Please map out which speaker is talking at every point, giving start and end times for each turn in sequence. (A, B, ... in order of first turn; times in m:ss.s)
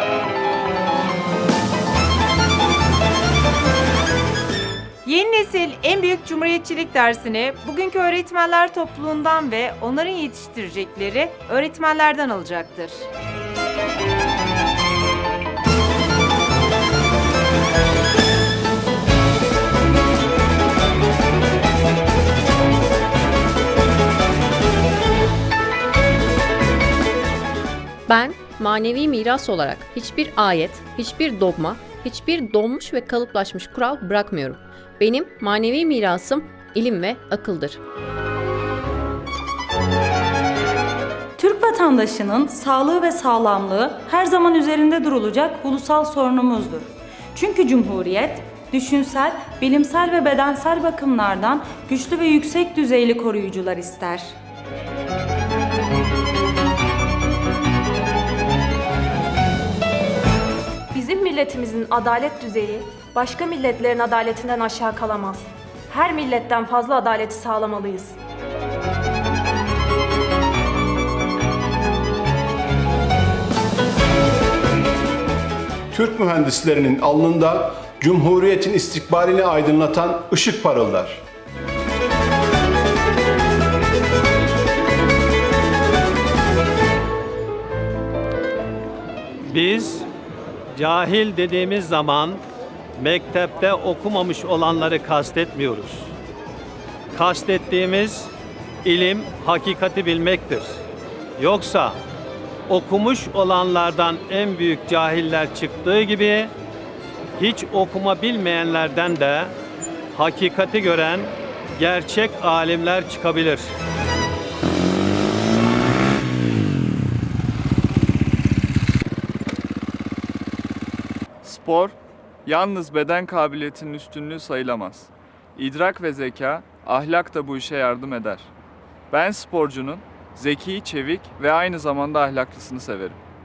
0:05.0-0:13.0 A
0:28.1-0:37.8 B
0:41.4-0:54.3 C
1:00.9-1:08.2 D
1:15.9-1:21.2 E
1:29.5-1:30.1 F
1:30.7-1:32.4 F
1:33.0-1:36.1 F
1:37.1-1:38.3 F
1:38.8-1:40.8 F
1:41.4-1:42.0 F
1:42.7-1:46.5 F
1:47.4-1:49.5 F
1:50.2-1:53.7 F
2:01.4-2:02.0 G
2:02.5-2:08.5 G
2:09.1-2:13.2 G